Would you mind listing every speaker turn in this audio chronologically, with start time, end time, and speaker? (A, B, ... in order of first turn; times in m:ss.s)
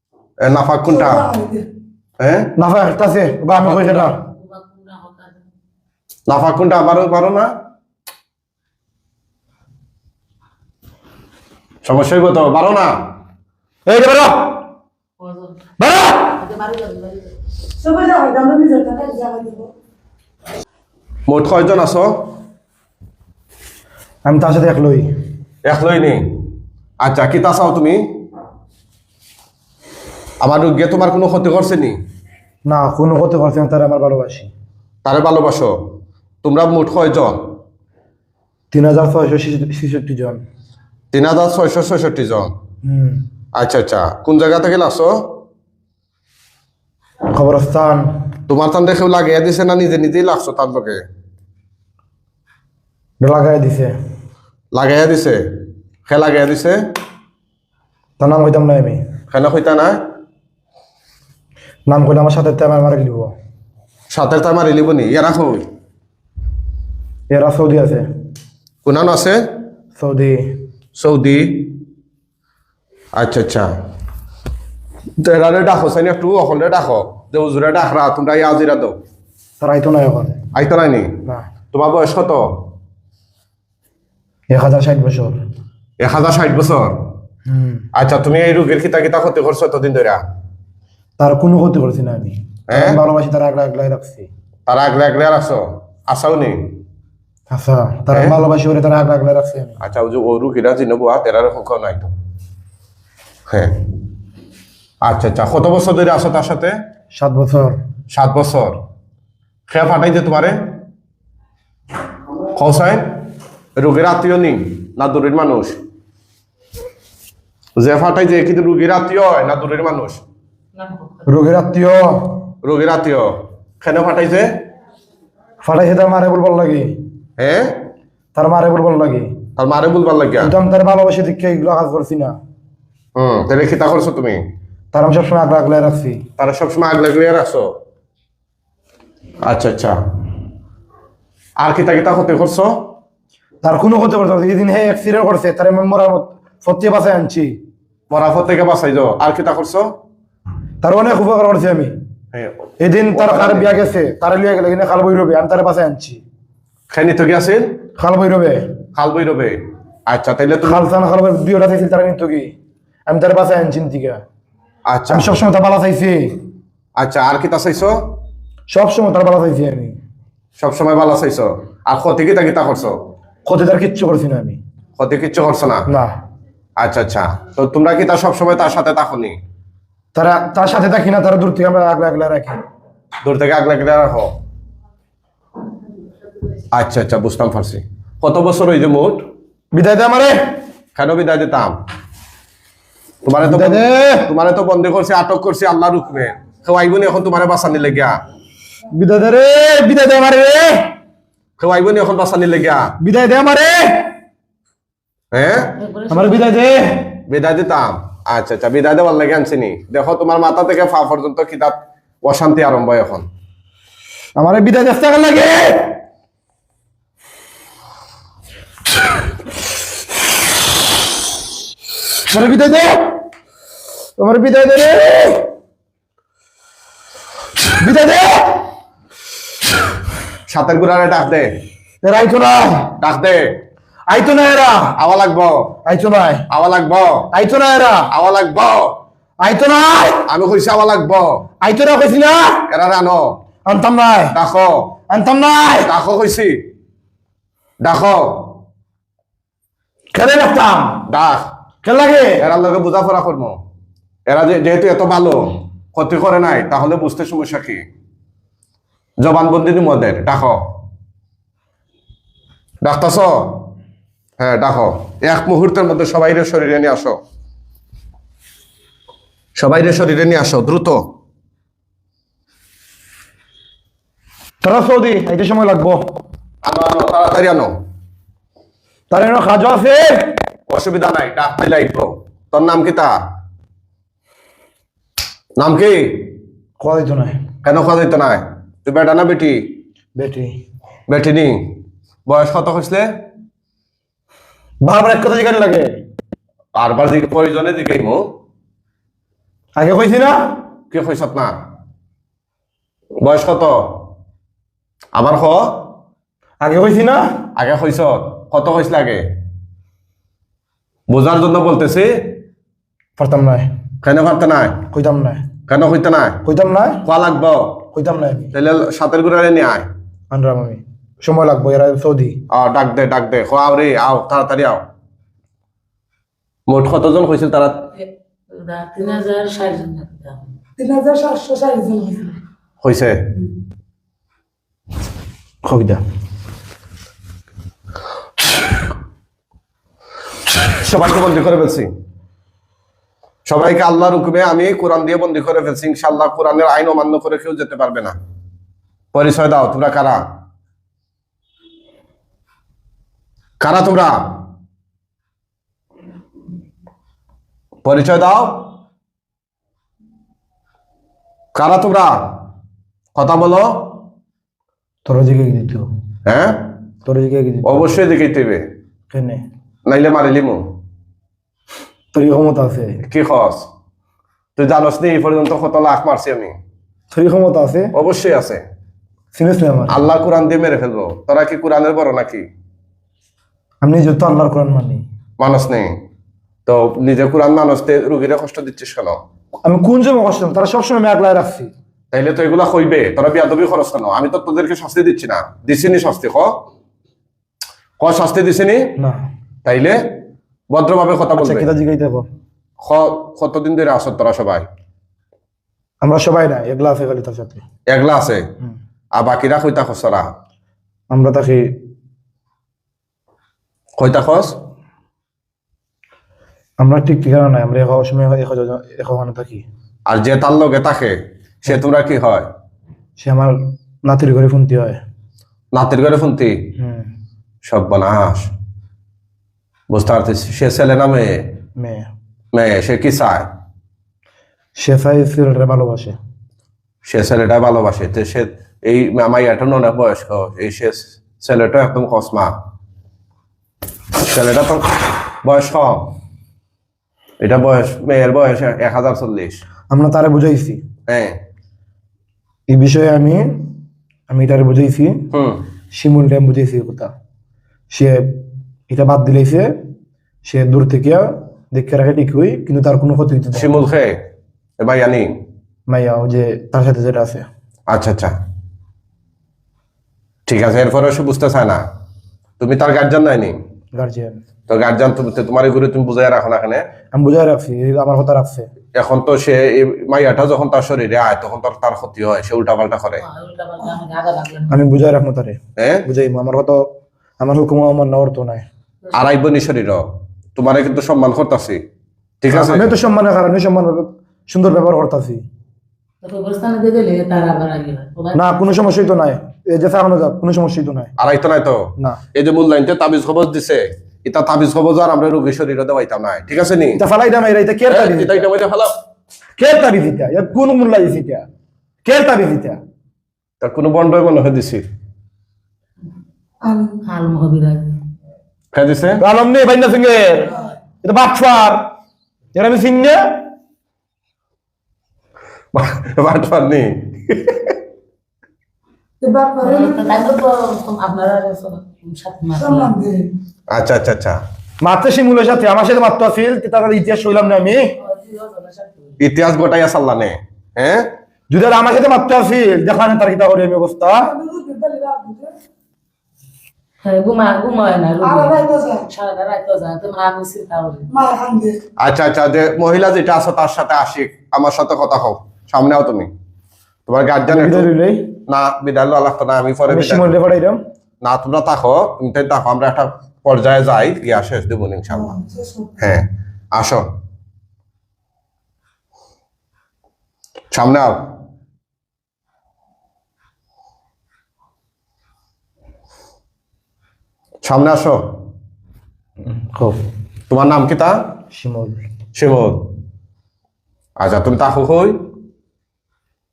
0:00.4-0:01.3 A
0:00.8-0:01.7 B
0:02.2-0:02.5 A
0:02.6-0:04.2 C
0:03.6-0:04.1 A
0:04.2-0:05.4 D
0:06.3-0:07.5 A
0:11.8-0:12.9 A
0:13.8-0:14.6 C
0:15.2-0:15.6 D
0:15.8-0:16.3 C
0:16.3-0:17.3 D
0:17.8-0:19.7 B
0:21.3-0:22.3 A
0:24.2-0:25.1 C
0:25.6-0:26.2 A
0:27.0-0:28.0 A
0:30.4-0:32.0 A
0:32.6-0:34.5 C
0:35.0-0:35.7 A
0:36.4-0:37.6 A
0:38.7-0:40.4 C
0:41.1-0:42.5 A
0:42.8-0:43.2 C
0:43.5-0:45.1 A
0:47.3-0:48.1 C
0:48.5-0:51.0 A
0:53.2-0:53.9 C
0:54.7-0:55.4 A
0:56.1-0:56.8 A
0:58.2-0:59.0 C
0:59.3-1:00.0 A
1:01.9-1:03.3 C
1:04.1-1:05.6 A
1:07.3-1:08.0 C
1:08.8-1:09.4 A
1:10.0-1:10.5 C
1:11.0-1:11.7 A
1:13.2-1:13.7 A
1:15.2-1:19.0 A
1:19.6-1:20.4 C
1:20.5-1:21.2 A
1:21.7-1:22.4 A
1:24.5-1:25.4 C
1:26.0-1:27.0 A
1:27.4-1:27.8 C
1:27.9-1:30.2 A
1:31.2-1:34.3 C
1:32.7-1:33.0 A
1:34.7-1:36.8 A
1:37.5-1:39.8 C
1:39.8-1:42.1 A
1:43.5-1:43.7 A
1:45.0-1:46.7 A
1:47.1-1:47.8 C
1:48.1-1:48.8 A
1:49.7-1:50.7 A
1:52.5-1:53.0 A
1:53.8-1:55.8 A
1:57.8-2:00.2 A
2:00.7-2:01.3 D
2:01.3-2:02.4 C
2:02.6-2:03.3 A
2:03.8-2:04.5 A
2:05.6-2:06.9 C
2:07.4-2:07.8 A
2:08.3-2:09.4 C
2:09.6-2:10.5 A
2:10.4-2:12.4 C
2:13.2-2:14.4 A
2:14.9-2:16.2 C
2:16.4-2:17.7 A
2:19.4-2:19.9 A
2:21.6-2:22.9 A
2:23.6-2:27.6 C
2:28.1-2:29.9 A
2:30.8-2:31.9 C
2:32.3-2:33.8 A
2:32.8-2:36.2 C
2:36.9-2:37.7 A
2:38.0-2:38.6 C
2:38.9-2:39.6 A
2:40.1-2:40.8 A
2:40.6-2:42.5 C
2:43.1-2:44.2 C
2:44.9-2:45.4 A
2:45.1-2:46.3 C
2:47.0-2:48.0 A
2:48.7-2:50.0 C
2:50.6-2:53.0 A
2:53.4-2:54.6 C
2:55.0-2:55.8 A
2:55.9-2:56.1 C
2:56.8-2:59.4 A
3:00.1-3:02.6 C
3:03.2-3:04.3 A
3:06.7-3:09.2 A
3:09.7-3:10.4 C
3:10.9-3:11.8 A
3:13.2-3:18.2 A
3:13.4-3:14.3 C
3:18.9-3:20.9 C
3:21.6-3:22.9 A
3:23.0-3:24.1 C
3:25.3-3:25.7 A
3:25.8-3:26.5 D
3:26.1-3:27.2 C
3:27.3-3:33.2 A
3:34.4-3:36.0 C
3:42.3-3:43.0 C
3:44.2-3:45.4 C
3:47.8-3:48.6 C
3:50.5-3:51.5 A
3:52.0-3:52.9 C
3:53.0-3:53.4 A
3:54.1-3:55.0 C
3:55.0-3:55.7 A
3:55.8-3:56.4 C
3:56.5-3:57.3 A
3:57.3-3:58.1 C
3:58.1-3:58.9 A
3:59.4-4:00.3 C
4:00.3-4:01.4 A
4:01.6-4:02.7 C
4:02.7-4:03.3 A
4:03.6-4:04.4 C
4:04.3-4:04.8 A
4:05.1-4:05.9 C
4:05.8-4:06.6 A
4:07.8-4:08.5 A
4:10.1-4:11.0 C
4:11.1-4:11.5 A
4:11.8-4:12.4 C
4:12.4-4:13.6 A
4:14.3-4:17.8 A
4:19.2-4:20.6 A
4:22.8-4:23.6 A
4:24.4-4:27.2 A
4:29.6-4:31.0 A
4:34.6-4:36.0 C
4:36.6-4:37.7 A
4:39.1-4:40.3 C
4:40.7-4:43.1 A
4:45.6-4:46.3 A
4:46.8-4:47.4 C
4:47.6-4:49.7 A
4:50.2-4:50.6 C
4:51.1-4:51.7 A
4:52.3-4:53.1 A
4:54.8-4:56.0 C
4:56.8-4:58.2 A
4:59.8-5:00.4 C
5:00.9-5:01.5 A
5:03.2-5:04.0 A
5:05.1-5:05.8 A
5:06.6-5:07.3 C
5:07.6-5:09.2 A
5:11.1-5:12.3 A
5:13.2-5:13.7 C
5:14.0-5:14.8 A
5:14.9-5:15.5 C
5:15.7-5:16.4 A
5:16.4-5:17.0 C
5:17.0-5:17.8 A
5:17.9-5:18.5 C
5:18.5-5:19.9 A
5:20.3-5:22.4 C
5:22.5-5:24.8 A
5:26.7-5:27.8 A
5:28.0-5:30.5 D
5:30.8-5:32.4 B
5:32.8-5:33.2 A
5:35.6-5:36.0 C
5:40.8-5:41.9 A
5:43.4-5:48.2 A
5:49.1-5:50.2 A
5:53.6-5:54.1 A
5:57.8-5:58.7 A
6:01.5-6:02.1 A
6:03.1-6:03.9 A
6:05.0-6:05.9 C
6:06.2-6:06.7 A
6:07.0-6:08.0 C
6:07.6-6:08.6 A
6:09.1-6:09.4 C
6:09.8-6:10.6 A
6:12.1-6:13.0 C
6:13.0-6:13.6 A
6:14.6-6:16.5 A
6:17.1-6:17.9 C
6:17.9-6:18.6 A
6:19.3-6:20.0 C
6:19.9-6:22.4 A
6:23.8-6:25.0 C
6:25.4-6:25.9 A
6:26.6-6:29.2 A
6:29.6-6:31.7 C
6:32.1-6:36.5 A
6:38.0-6:38.9 A
6:39.0-6:39.2 C
6:39.6-6:40.0 A
6:40.7-6:41.7 A
6:41.4-6:42.3 C
6:42.8-6:44.7 A
6:46.0-6:47.6 C
6:47.9-6:48.4 A
6:49.1-6:50.3 A
6:51.1-6:51.7 C
6:54.0-6:54.5 A
6:56.8-6:59.6 C
7:00.1-7:02.4 A
7:03.2-7:05.0 C
7:05.7-7:06.6 A
7:06.8-7:07.1 C
7:07.6-7:08.5 A
7:09.9-7:11.5 A
7:11.8-7:12.1 C
7:12.5-7:13.4 A
7:14.8-7:16.2 C
7:17.0-7:22.5 A
7:24.3-7:26.1 A
7:27.4-7:29.6 A
7:29.9-7:30.8 C
7:31.1-7:31.4 A
7:32.7-7:33.7 C
7:34.3-7:35.3 C
7:35.3-7:35.6 A
7:35.9-7:37.1 C
7:37.9-7:38.4 C
7:38.9-7:39.7 C
7:40.4-7:43.8 C
7:43.5-7:44.2 A
7:44.8-7:45.3 A
7:45.9-7:47.4 C
7:47.9-7:48.4 A
7:50.4-7:51.8 A
7:52.6-7:53.6 A
7:53.9-7:54.4 C
7:54.7-7:56.8 A
7:57.1-7:58.7 C
7:58.9-8:03.2 A
8:03.2-8:04.8 D
8:04.7-8:08.6 C
8:05.8-8:06.0 A
8:09.1-8:11.8 A
8:12.4-8:13.0 A
8:12.5-8:15.4 C
8:16.2-8:18.5 D
8:18.3-8:21.1 C
8:21.2-8:27.0 A
8:27.0-8:28.4 C
8:27.9-8:28.9 A
8:29.6-8:31.4 C
8:32.0-8:32.8 C
8:33.6-8:34.8 A
8:36.6-8:37.0 B
8:37.0-8:37.9 D
8:38.7-8:39.2 A
8:39.2-8:40.5 C
8:41.0-8:41.9 C
8:42.5-8:43.3 C
8:45.7-8:47.8 A
8:49.2-8:50.2 B
8:49.6-8:52.9 D
8:52.5-8:53.3 B
8:53.7-8:54.4 A
8:54.8-8:57.9 C
8:58.0-8:59.2 D
8:59.2-9:01.1 A
9:01.5-9:04.3 C
9:04.2-9:05.5 B
9:07.0-9:11.1 D
9:08.2-9:09.1 B
9:11.1-9:11.8 B
9:12.0-9:16.3 A
9:17.1-9:17.9 A
9:17.5-9:18.3 C
9:18.5-9:20.3 A
9:19.9-9:20.8 C
9:21.2-9:25.4 A
9:25.1-9:26.0 B
9:26.0-9:27.1 A
9:30.7-9:31.2 A
9:37.6-9:38.2 A
9:39.4-9:40.0 C
9:40.5-9:41.1 A
9:41.5-9:42.0 C
9:42.3-9:42.9 A
9:44.2-9:45.2 A